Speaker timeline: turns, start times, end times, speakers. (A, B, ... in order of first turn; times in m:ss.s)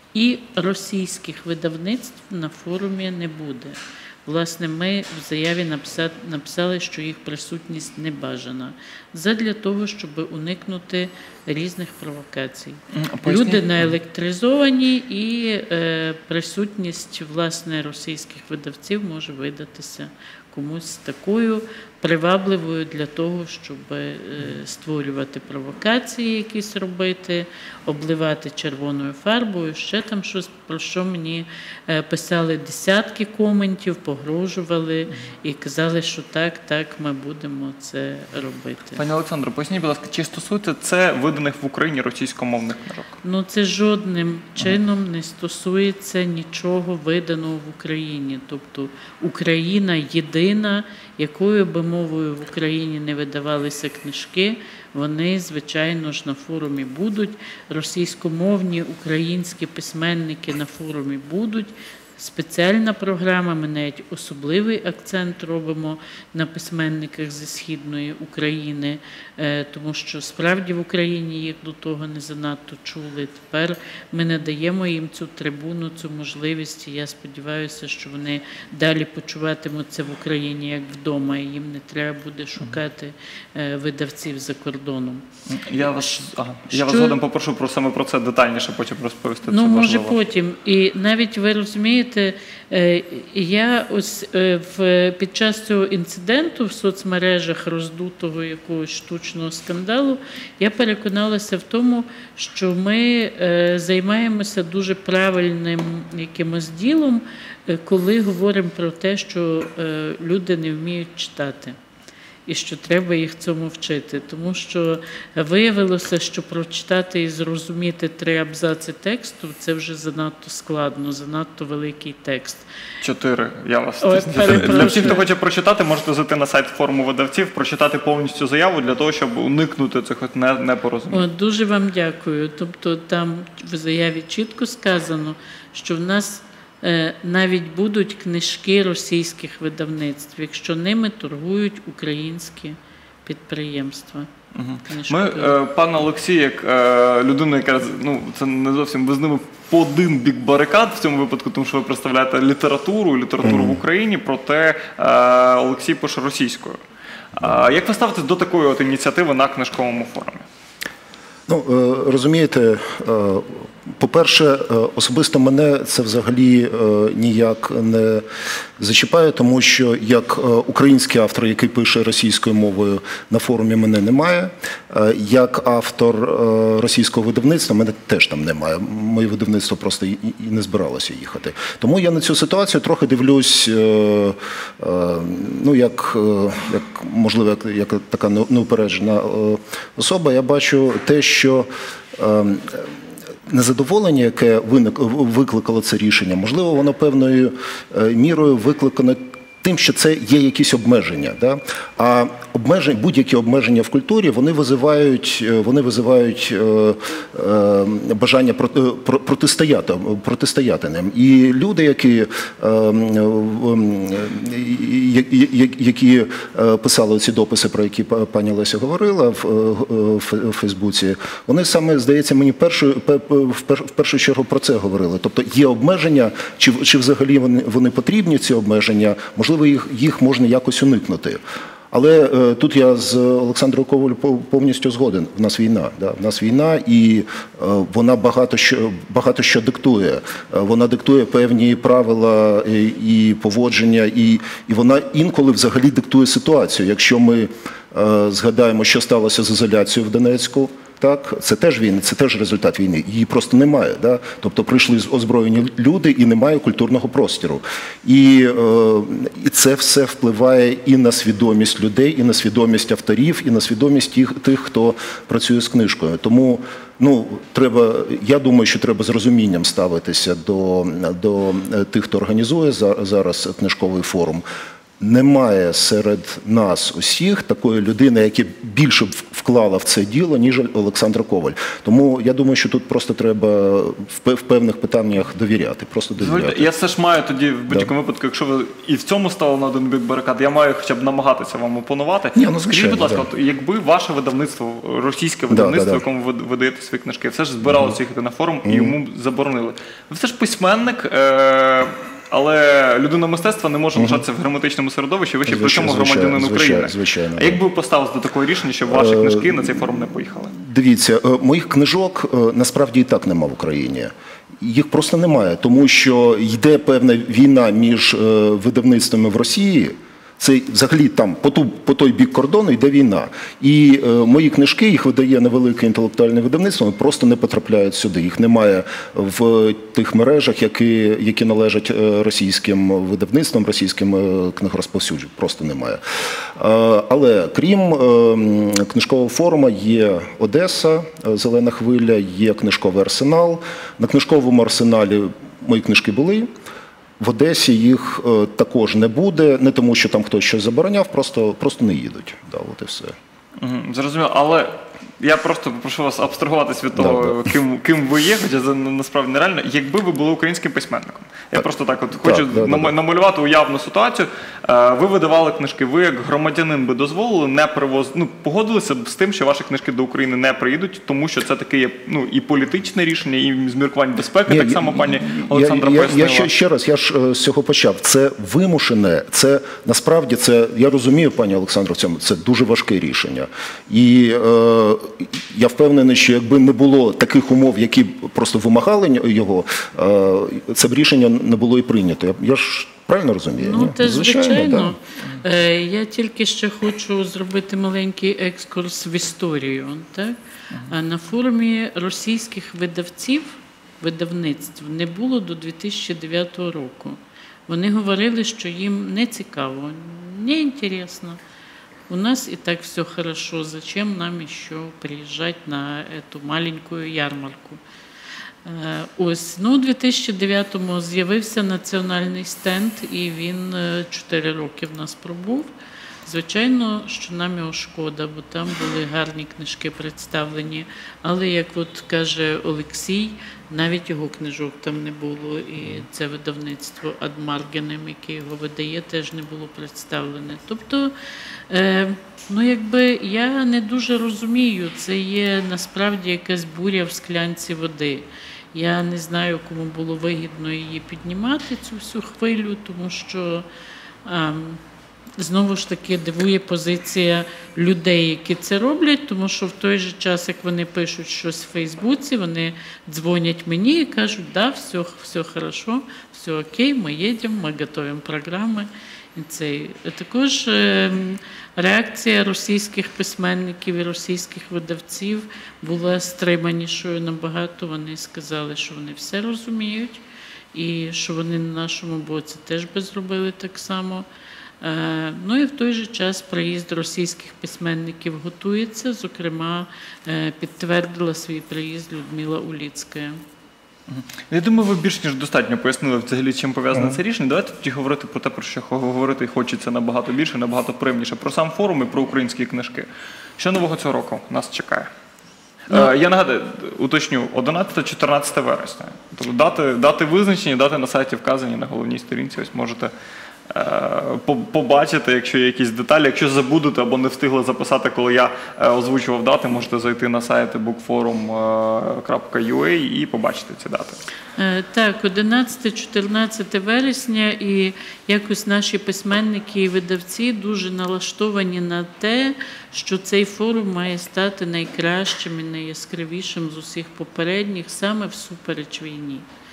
0:00.1-0:39.0 A
0:12.9-0:13.8 B
0:39.0-0:43.2 B
0:43.2-1:25.2 A
1:25.5-1:30.2 B
1:26.7-1:27.2 A
1:29.5-1:51.8 A
1:52.5-2:02.6 A
2:03.0-2:11.2 B
2:04.0-2:05.2 A
2:11.1-2:24.3 A
2:24.5-2:36.8 B
2:24.8-2:25.6 A
2:33.4-2:33.8 C
2:37.3-2:40.4 B
2:41.5-2:48.2 C
2:48.8-3:12.9 C
3:13.5-3:51.4 C
3:51.9-4:34.4 C
4:35.0-4:46.7 C
4:46.2-5:10.5 B
4:52.3-4:53.3 C
4:55.5-4:56.0 C
4:57.6-4:57.9 C
4:58.6-4:59.0 C
5:04.0-5:04.2 C
5:05.4-5:07.6 C
5:08.9-5:09.8 C
5:10.5-5:46.5 C
5:47.2-5:53.2 C
5:53.6-6:16.5 B
5:57.0-5:57.4 C
6:01.5-6:02.9 C
6:14.5-6:35.0 C
6:33.6-6:51.4 A
6:52.1-6:57.8 A
6:58.6-7:05.7 A
7:06.2-7:21.1 A
7:21.7-7:33.6 A
7:34.2-7:34.8 A
7:35.4-8:00.2 A
8:00.7-8:04.2 A
8:04.8-8:13.4 A
8:14.1-8:23.1 B
8:16.9-8:17.2 C
8:23.6-8:25.1 B
8:25.9-8:33.1 B
8:33.7-8:44.2 B
8:44.6-8:59.5 A